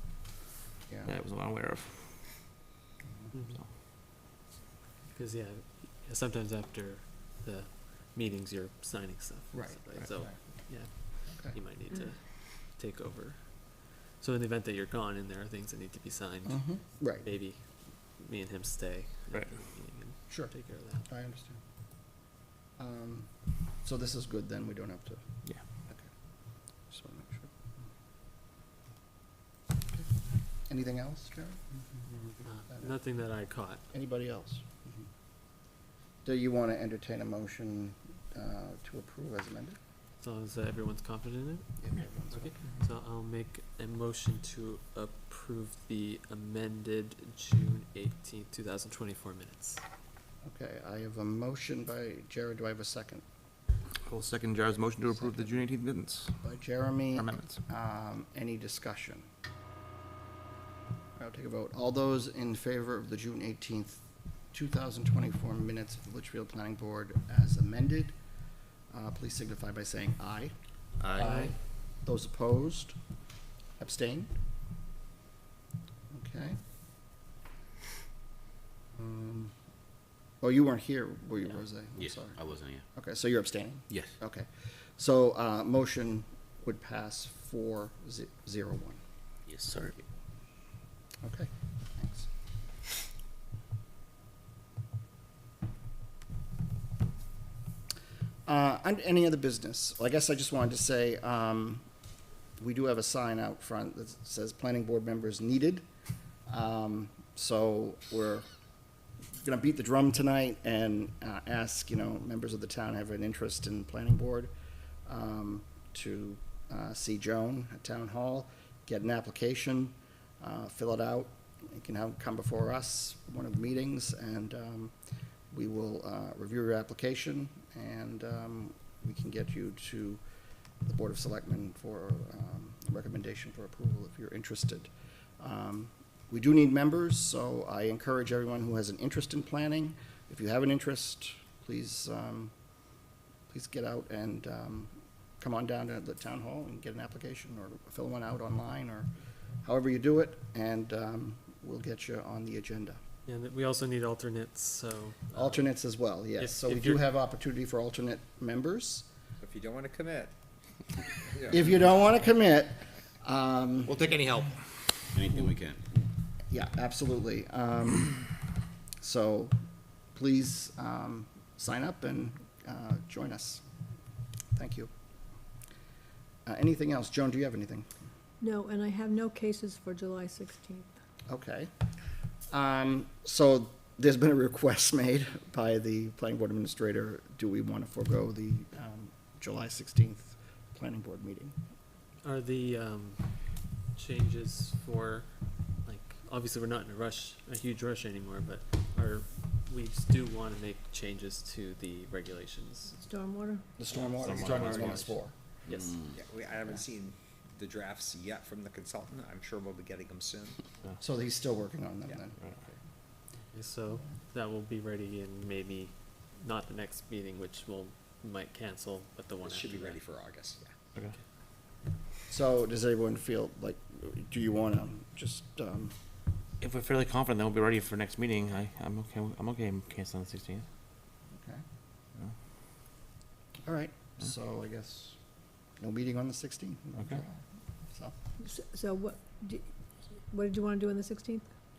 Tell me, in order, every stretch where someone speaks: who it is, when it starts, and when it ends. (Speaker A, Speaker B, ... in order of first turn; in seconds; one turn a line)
Speaker A: 0.9-1.1
Speaker B: 1.1-2.4
Speaker C: 3.3-3.6
Speaker C: 5.1-21.1
Speaker A: 9.5-11.6
Speaker A: 16.5-17.3
Speaker A: 20.3-21.6
Speaker A: 22.8-25.2
Speaker A: 26.9-27.7
Speaker A: 30.7-31.7
Speaker C: 32.4-33.8
Speaker A: 33.9-35.1
Speaker A: 36.2-39.8
Speaker C: 40.2-49.8
Speaker A: 41.8-42.8
Speaker A: 50.4-53.2
Speaker B: 54.0-56.4
Speaker A: 55.1-55.7
Speaker A: 56.4-59.3
Speaker B: 57.2-57.6
Speaker A: 61.2-68.1
Speaker A: 68.9-73.0
Speaker C: 71.2-71.5
Speaker A: 73.8-74.3
Speaker A: 76.1-76.6
Speaker A: 79.0-79.5
Speaker A: 80.4-82.4
Speaker D: 82.0-82.8
Speaker A: 82.9-89.0
Speaker D: 89.5-89.9
Speaker A: 91.2-92.3
Speaker A: 98.5-101.8
Speaker A: 102.6-105.8
Speaker A: 106.5-108.5
Speaker A: 109.4-114.5
Speaker A: 115.1-124.9
Speaker A: 125.5-130.2
Speaker A: 130.8-142.5
Speaker A: 143.5-149.1
Speaker A: 149.6-153.0
Speaker C: 153.3-157.1
Speaker A: 155.3-159.1
Speaker E: 159.4-160.3
Speaker E: 161.4-161.7
Speaker A: 161.5-164.1
Speaker D: 165.2-165.8
Speaker A: 166.5-168.3
Speaker A: 169.0-169.5
Speaker A: 170.2-173.6
Speaker A: 174.6-174.9
Speaker A: 176.5-177.9
Speaker F: 178.4-180.9
Speaker A: 181.3-181.7
Speaker A: 182.5-191.6
Speaker C: 192.2-203.0
Speaker F: 203.0-203.7
Speaker A: 203.8-205.3
Speaker C: 203.9-206.1
Speaker B: 204.2-205.1
Speaker D: 205.7-206.2
Speaker E: 206.2-210.6
Speaker A: 211.0-212.6
Speaker C: 213.5-221.2
Speaker E: 219.4-220.6
Speaker A: 222.3-225.9
Speaker B: 226.6-230.7
Speaker A: 231.3-231.6
Speaker A: 233.6-235.2
Speaker A: 235.8-238.1
Speaker B: 237.0-237.2
Speaker F: 238.4-239.7
Speaker F: 240.3-241.5